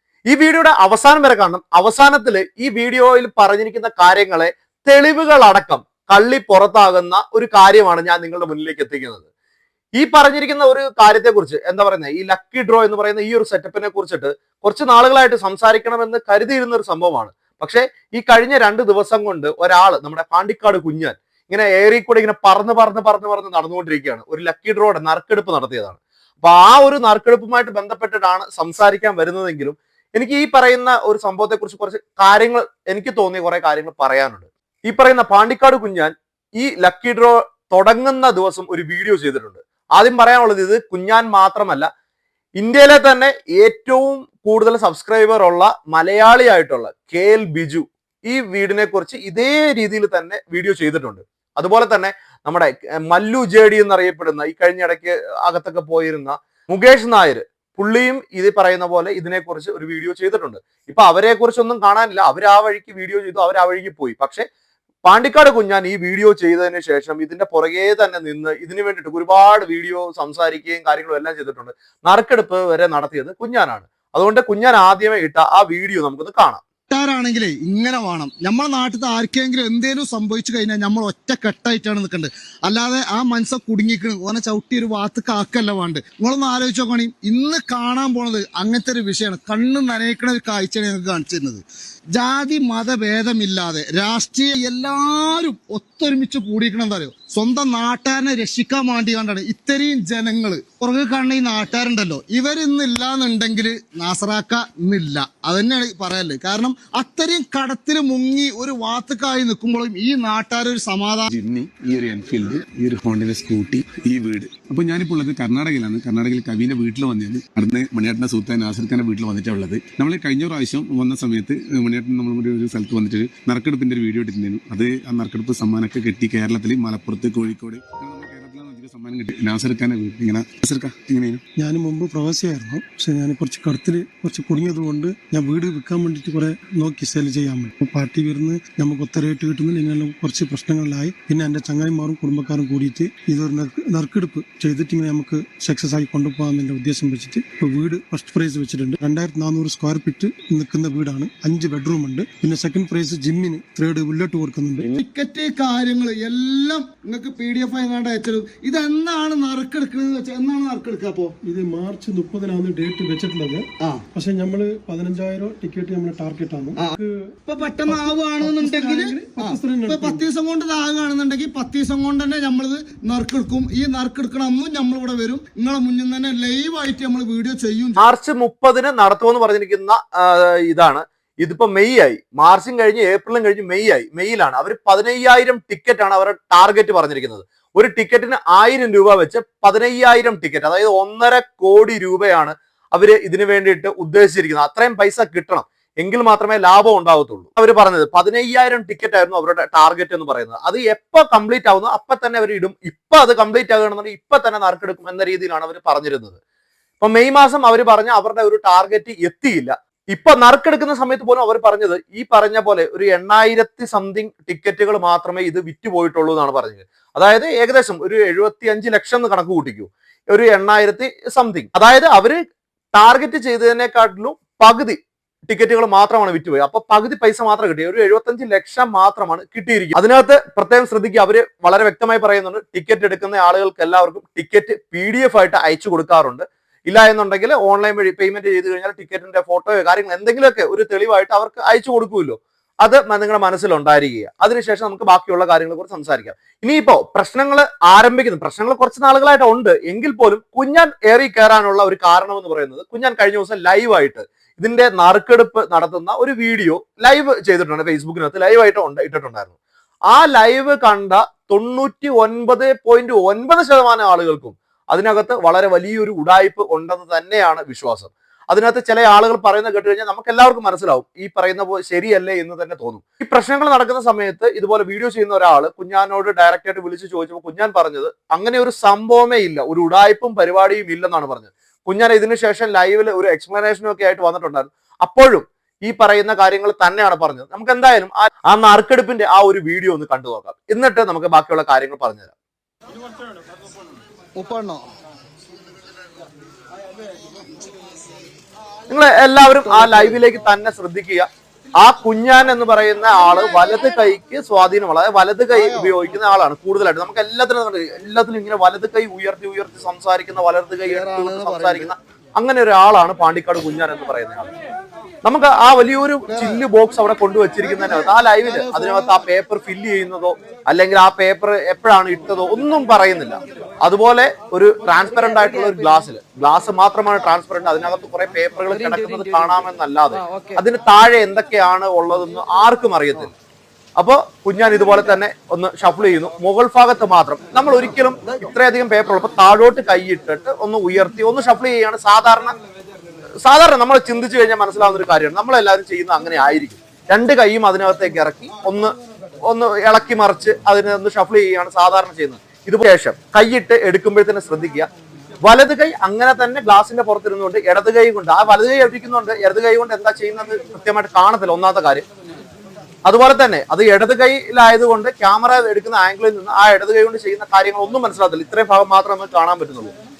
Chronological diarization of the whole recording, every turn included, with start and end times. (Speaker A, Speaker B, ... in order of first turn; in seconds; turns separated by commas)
Speaker A: 0.3-9.2, Speaker A: 10.0-41.9, Speaker A: 42.6-64.5, Speaker A: 65.0-76.6, Speaker B: 76.9-91.6, Speaker B: 92.1-111.3, Speaker C: 111.3-131.4, Speaker D: 131.6-154.9, Speaker B: 154.8-161.3, Speaker D: 161.4-167.3, Speaker B: 167.4-178.0, Speaker D: 167.8-170.2, Speaker A: 178.0-206.4, Speaker A: 207.0-222.4, Speaker A: 222.9-259.5, Speaker A: 260.1-292.3, Speaker B: 294.4-294.9, Speaker A: 298.9-301.3, Speaker B: 299.6-300.2, Speaker A: 301.8-314.5, Speaker B: 305.5-305.9, Speaker B: 310.9-311.9, Speaker A: 315.2-333.3, Speaker B: 316.3-316.6, Speaker B: 317.6-319.2, Speaker A: 334.0-342.6, Speaker A: 343.4-348.9, Speaker A: 349.4-354.9, Speaker A: 355.4-362.1, Speaker A: 363.1-369.9